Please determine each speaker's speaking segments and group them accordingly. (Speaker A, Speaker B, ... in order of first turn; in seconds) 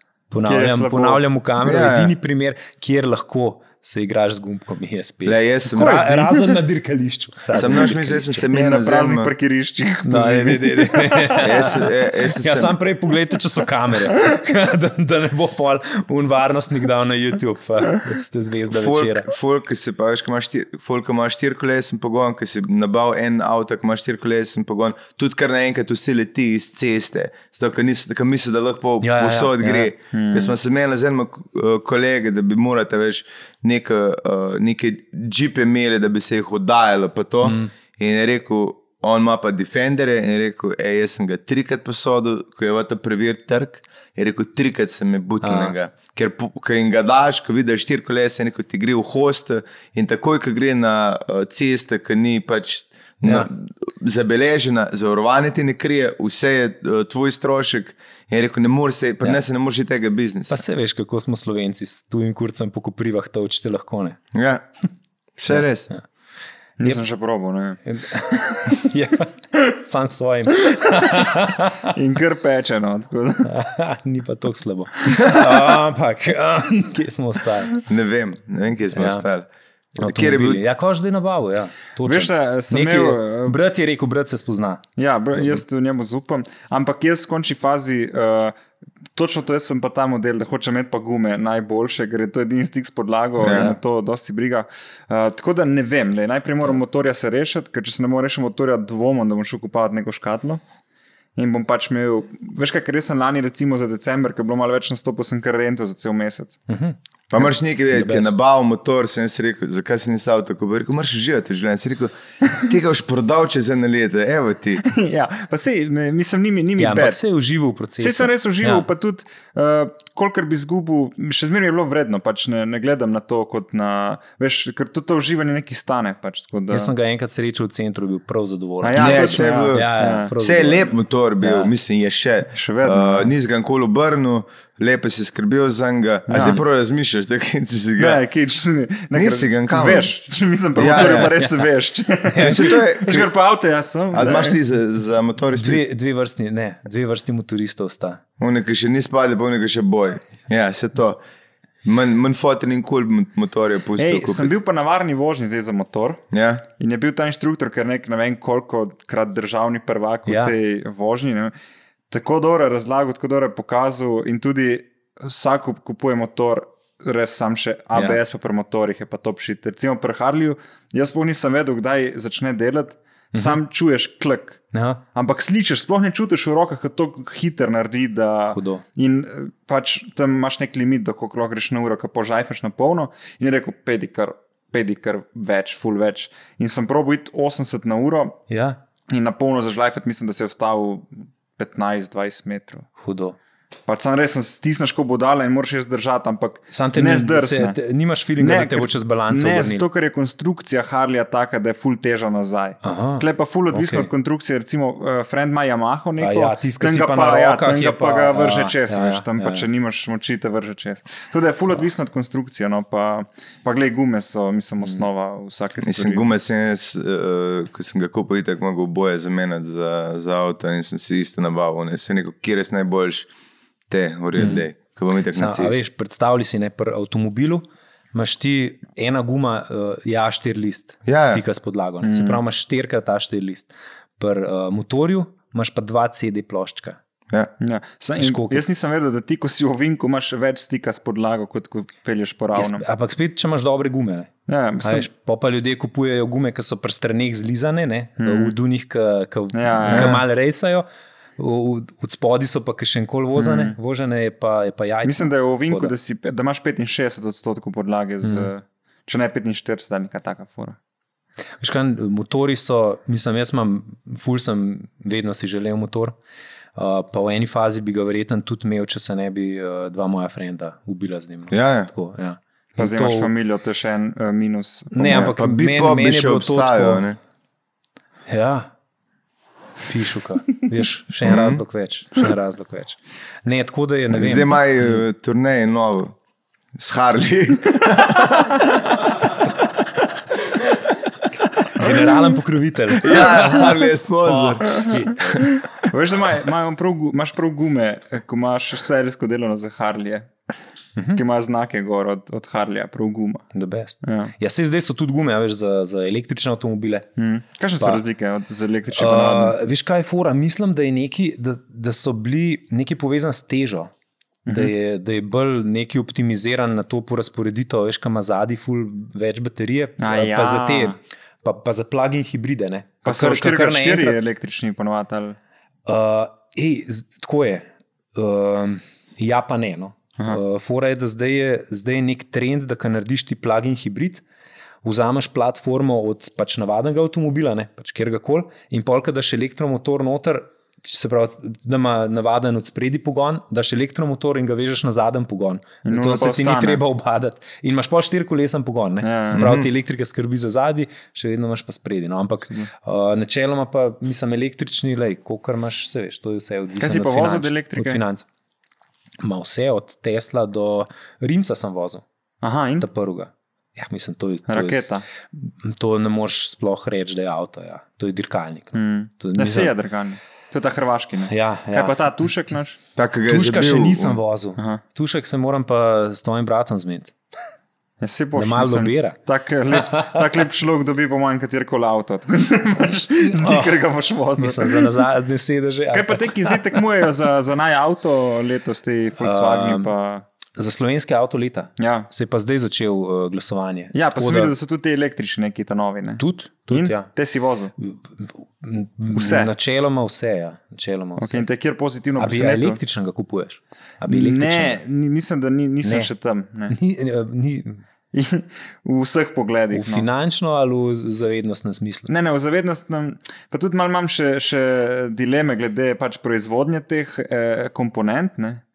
Speaker A: 0.3-8.5, 10.0-19.3, 29.0-29.9, 37.4-37.7, 45.4-45.7, 60.5-64.2, 65.5-66.0, 67.8-71.9, 73.4-77.8, 78.9-79.2, 80.0-84.8, 93.4-93.8, 106.7-108.3, 116.8-118.9, 126.7-131.7, 140.9-141.7, 142.3-142.8, 145.5-148.2, 160.3-160.6, 167.9-168.2, 173.3-173.6, 174.7-175.0, 178.5-178.8, 188.5-188.8, 193.0-193.3, 196.7-199.8, 202.8-204.1, 206.2-209.7, 224.3-224.7, 225.3-237.0, 238.2-238.6, 242.5-244.3, 244.8-250.8, 251.4-255.9, 258.2-258.5, 261.6-266.1, 266.8-273.3, 274.9-277.0, 278.3-278.7, 279.9-285.0, 291.7-295.5, 303.5-307.1, 308.9-313.9, 314.5-324.2, 325.9-334.2, 334.8-358.2, 359.2-362.0, 362.8-369.7, 371.3-372.0, 373.3-377.1, 378.4-379.2, 379.8-380.2, 383.2-383.8, 384.4-386.8, 389.2-389.9, 390.6-394.5, 396.2-397.1, 397.8-401.4, 402.2-404.8, 405.8-406.1, 406.7-407.8, 409.7-412.1
Speaker B: 0.4-1.2, 5.7-6.6, 8.5-11.5, 30.1-30.5, 66.8-67.8, 71.9-73.5, 82.0-83.6, 85.0-88.5, 89.1-100.6, 101.3-106.6, 114.8-117.2, 118.0-126.9, 128.8-130.3, 132.5-133.3, 136.3-136.6, 138.0-144.6, 154.0-156.2, 156.8-161.5, 162.1-174.6, 175.1-188.4, 189.1-192.8, 193.9-197.8, 198.4-216.2, 232.0-232.4, 237.6-242.8, 244.5-245.1, 248.2-248.6, 249.5-250.2, 253.3-253.8, 255.0-260.8, 272.8-275.3, 294.7-295.0, 295.7-300.3, 301.1-303.5, 304.0-304.3, 307.2-309.6, 314.4-314.7, 320.0-321.0, 323.0-325.4, 345.9-346.8, 349.0-349.5, 356.8-358.0, 362.4-362.9, 364.5-365.1, 368.7-372.8, 378.0-385.1, 385.9-390.2, 391.8-392.1, 393.9-397.7, 399.1-399.5, 401.2-402.8, 404.1-406.8, 408.1-410.1, 412.1-418.6
Speaker C: 1.6-2.1, 5.2-6.2, 7.5-9.3, 11.4-12.8, 18.7-60.6, 64.3-64.7, 65.4-65.9, 77.8-79.5, 80.0-80.6, 93.4-93.8, 107.3-114.8, 128.9-138.2, 139.1-140.1, 140.8-141.4, 142.4-143.3, 144.1-145.8, 148.4-151.2, 151.8-154.5, 156.3-156.6, 215.8-223.3, 223.9-225.8, 231.1-231.4, 249.9-250.2, 271.5-271.9, 275.0-277.2, 281.2-281.6, 284.1-286.1, 286.7-289.0, 293.0-294.7, 349.3-349.7, 372.9-374.2